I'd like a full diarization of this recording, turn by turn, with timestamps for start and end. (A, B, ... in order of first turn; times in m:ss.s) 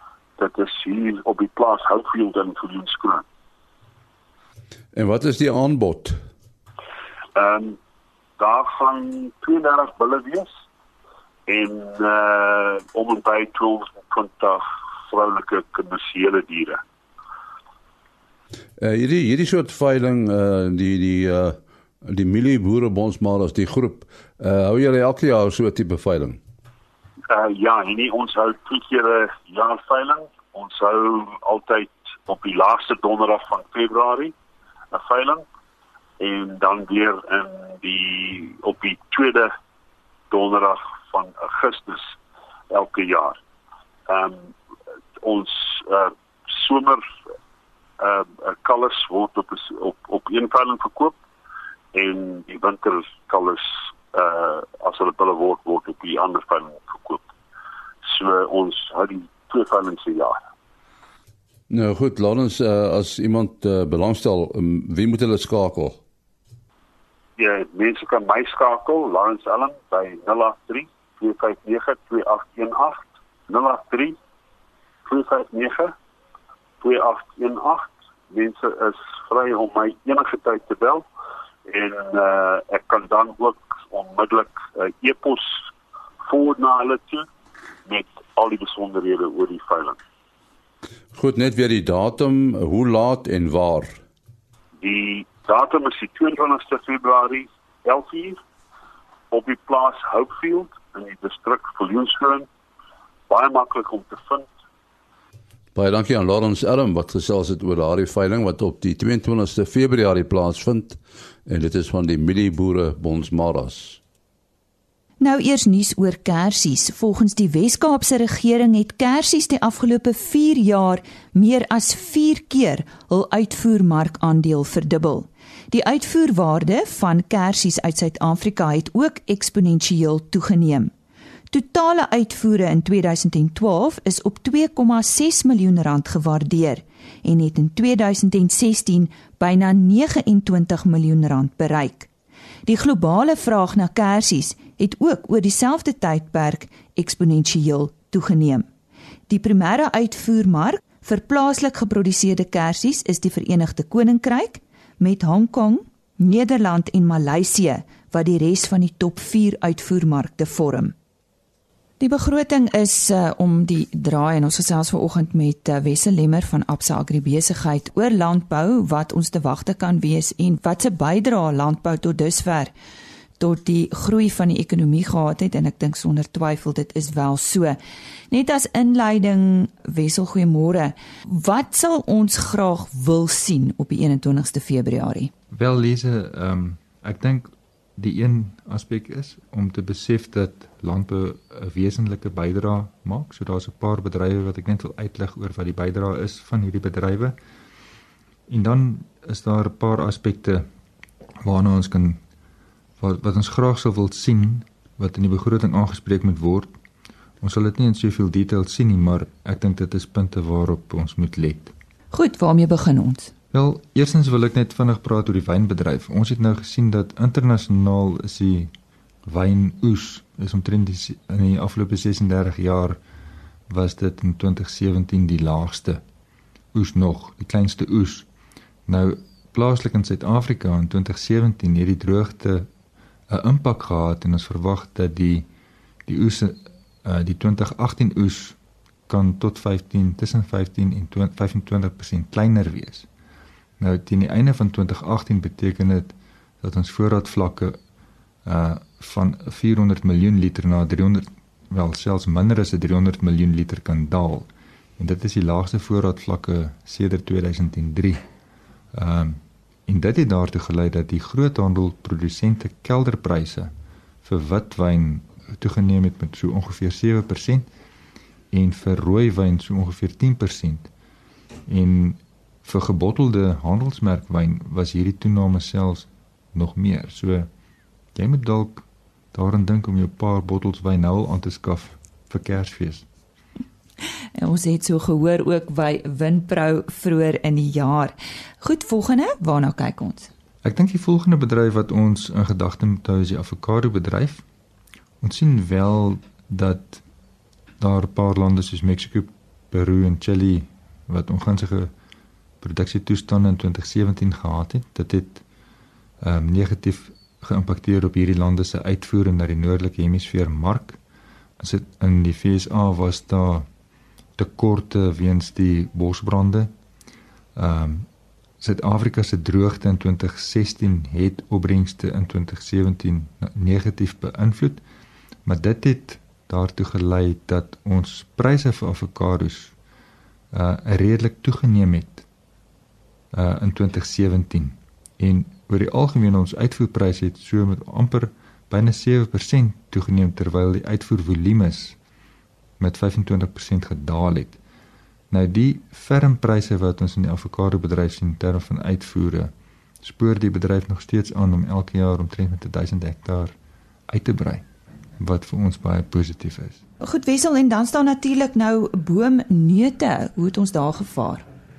0:00.4-0:03.2 A
0:04.9-0:06.2 B
0:07.3-0:07.8 A
0:08.4-0:10.5 A
0:11.5-0:16.8 A
0:18.8-0:26.4 B
0:27.3-0:34.3 A
0:34.9-0:35.4 A
0:36.2-0:39.5 A
0:40.3-0:42.1 A
0:42.7-0:43.4 A
0:44.1-0:44.5 A
0:45.2-0:47.0 A
0:48.0-0:51.2 A
0:51.9-0:57.2 A
0:58.0-1:00.4 A
1:01.7-1:06.0 B
1:07.4-1:14.2 A
1:15.1-1:15.9 A
1:16.8-1:21.0 A
1:21.7-1:25.6 A
1:26.2-1:27.3 A
1:27.8-1:30.0 A
1:31.1-1:34.0 B
1:34.8-1:38.4 A
1:39.3-1:42.5 A
1:43.3-1:44.5 A
1:45.7-1:54.0 B
1:55.2-2:10.9 C
2:11.5-2:22.1 C
2:22.6-2:28.7 C
2:29.3-2:40.9 C
2:42.0-2:52.7 C
2:53.4-2:57.8 C
2:58.3-3:05.3 C
3:05.5-3:17.4 D
3:18.5-3:20.7 D
3:21.4-3:22.2 D
3:23.0-3:26.8 D
3:27.4-3:31.7 D
3:32.1-3:33.3 C
3:33.5-3:38.7 D
3:39.2-3:43.0 D
3:43.7-3:46.0 D
3:46.7-3:48.3 D
3:48.9-3:52.7 D
3:53.3-3:55.5 D
3:56.0-3:58.6 D
3:59.1-4:03.1 D
4:03.8-4:07.8 D
4:08.4-4:18.2 D
4:18.9-4:23.7 D
4:24.2-4:27.7 D
4:28.5-4:30.9 D
4:31.7-4:37.5 D
4:38.1-4:43.0 D
4:44.4-4:50.3 C
4:50.6-4:54.4 D
4:55.2-4:57.0 D
4:57.8-5:01.9 D
5:02.6-5:05.4 D
5:06.2-5:11.0 D
5:11.6-5:13.7 D
5:14.4-5:16.7 D
5:17.6-5:18.1 D
5:18.6-5:24.8 D
5:25.4-5:29.7 D
5:30.5-5:32.2 D
5:33.3-5:42.0 D
5:42.8-5:44.6 D
5:45.3-5:53.5 D
5:54.1-5:54.6 D
5:55.2-5:56.8 D
5:57.0-6:01.4 C